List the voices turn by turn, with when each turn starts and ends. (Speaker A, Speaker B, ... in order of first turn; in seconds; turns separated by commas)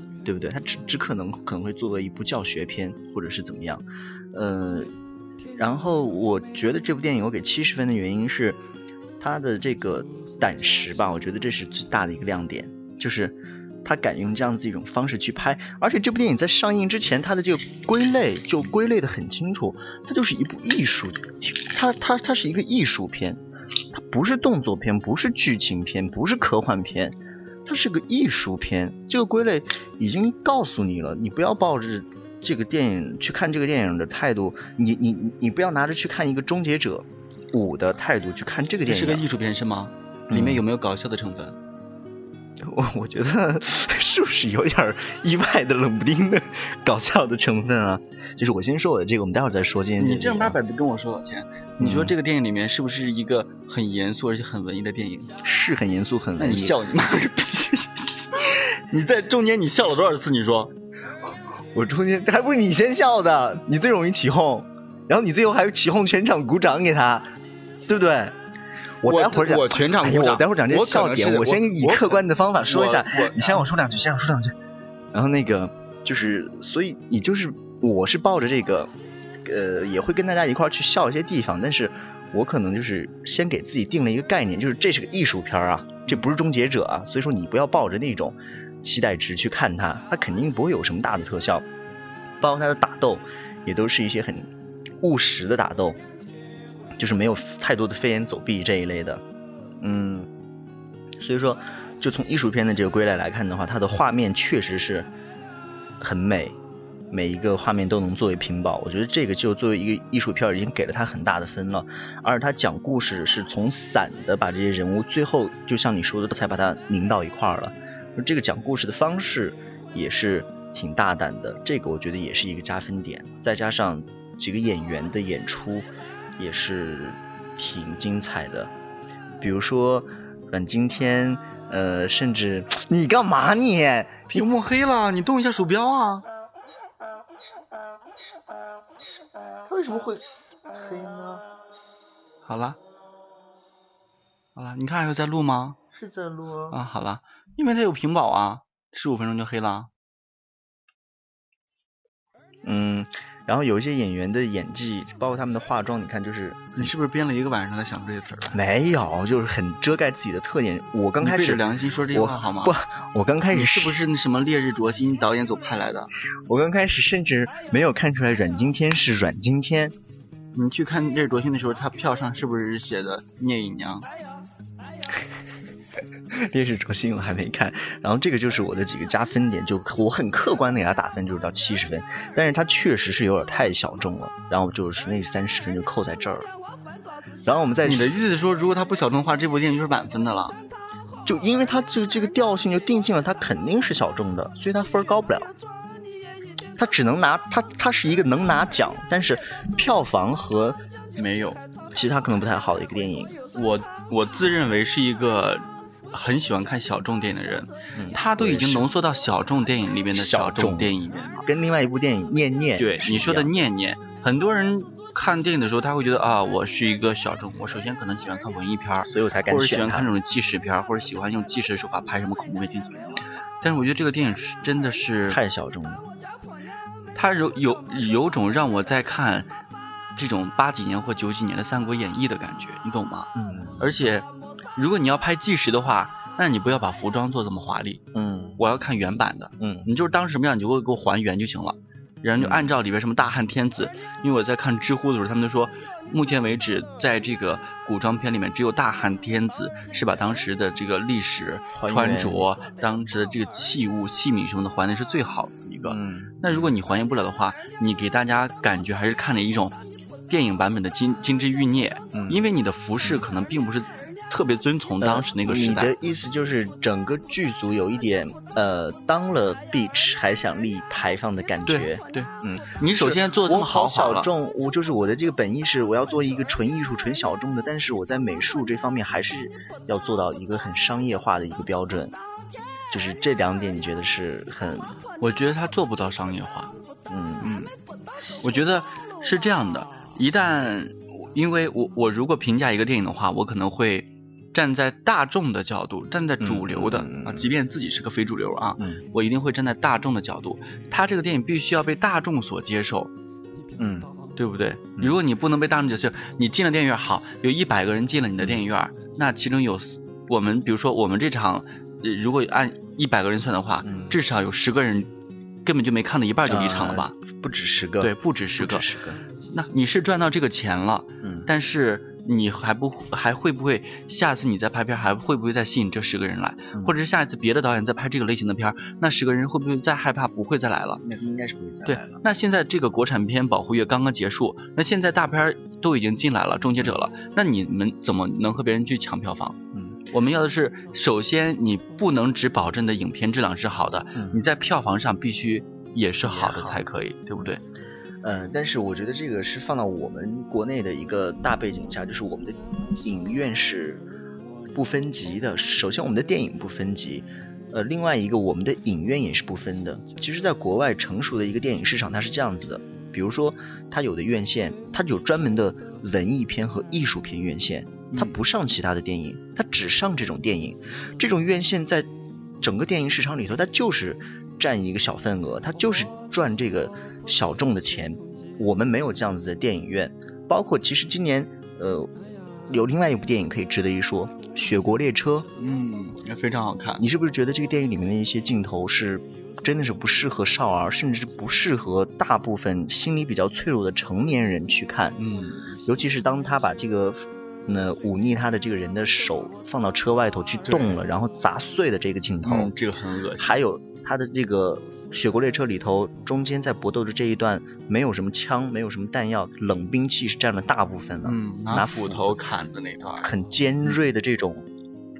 Speaker A: 0.2-4.9, Speaker A: 5.5-8.6, Speaker A: 9.2-39.2, Speaker B: 38.9-41.6, Speaker A: 40.3-40.6, Speaker A: 42.6-50.6, Speaker B: 50.0-55.3, Speaker A: 51.8-52.1, Speaker A: 55.4-56.8, Speaker B: 56.4-60.7, Speaker A: 61.7-67.3, Speaker A: 67.9-68.3, Speaker A: 69.0-74.5, Speaker B: 69.0-73.6, Speaker A: 75.1-78.9, Speaker A: 79.4-91.7, Speaker A: 92.4-96.0, Speaker A: 97.0-99.2, Speaker A: 99.8-100.3, Speaker A: 101.2-105.1, Speaker A: 106.0-106.6, Speaker A: 107.1-128.7, Speaker A: 129.4-134.5, Speaker B: 134.3-136.2, Speaker A: 139.7-141.4, Speaker B: 142.4-142.8, Speaker B: 144.6-145.8, Speaker A: 145.9-146.8, Speaker B: 146.7-149.9, Speaker A: 152.6-156.9, Speaker B: 156.8-158.6, Speaker A: 158.5-164.1, Speaker B: 161.2-162.7, Speaker B: 163.5-166.1, Speaker A: 166.3-169.9, Speaker B: 170.5-174.1, Speaker A: 176.3-186.5, Speaker A: 187.4-188.2, Speaker B: 187.8-190.6, Speaker A: 191.2-195.5, Speaker A: 196.8-200.8, Speaker B: 201.2-201.6, Speaker A: 201.9-203.3, Speaker B: 203.5-211.5, Speaker A: 207.9-208.9, Speaker A: 210.1-213.5, Speaker B: 212.8-225.4, Speaker A: 219.0-220.1, Speaker A: 225.3-226.0, Speaker B: 227.1-229.5, Speaker B: 230.2-238.0, Speaker A: 233.3-233.9, Speaker A: 238.1-238.6, Speaker B: 238.6-265.9, Speaker A: 239.6-239.9, Speaker A: 242.4-242.7, Speaker A: 251.7-252.4, Speaker A: 255.8-256.7, Speaker A: 262.1-262.4, Speaker A: 265.0-282.1, Speaker B: 271.6-274.3, Speaker A: 282.9-284.9, Speaker B: 285.2-286.7, Speaker A: 287.1-287.5, Speaker B: 287.4-287.7, Speaker B: 288.4-303.1, Speaker A: 296.4-297.5, Speaker A: 303.8-304.1, Speaker B: 304.3-315.1, Speaker A: 313.8-314.2, Speaker B: 315.6-317.1, Speaker A: 316.4-319.2, Speaker B: 318.0-318.9, Speaker B: 319.4-331.0, Speaker A: 321.2-321.5, Speaker A: 331.0-332.2, Speaker B: 331.9-339.6, Speaker A: 339.7-340.0, Speaker B: 340.1-347.6, Speaker A: 344.1-344.4, Speaker A: 346.2-346.8, Speaker A: 348.2-354.0, Speaker A: 354.7-372.1, Speaker B: 368.1-368.4, Speaker A: 372.6-382.1, Speaker A: 382.7-385.5, Speaker B: 385.6-387.0, Speaker A: 387.0-395.2, Speaker B: 395.2-395.7, Speaker A: 395.8-402.7, Speaker B: 400.6-401.0, Speaker B: 402.4-403.6, Speaker A: 403.4-412.4, Speaker B: 411.2-413.3, Speaker A: 413.2-414.7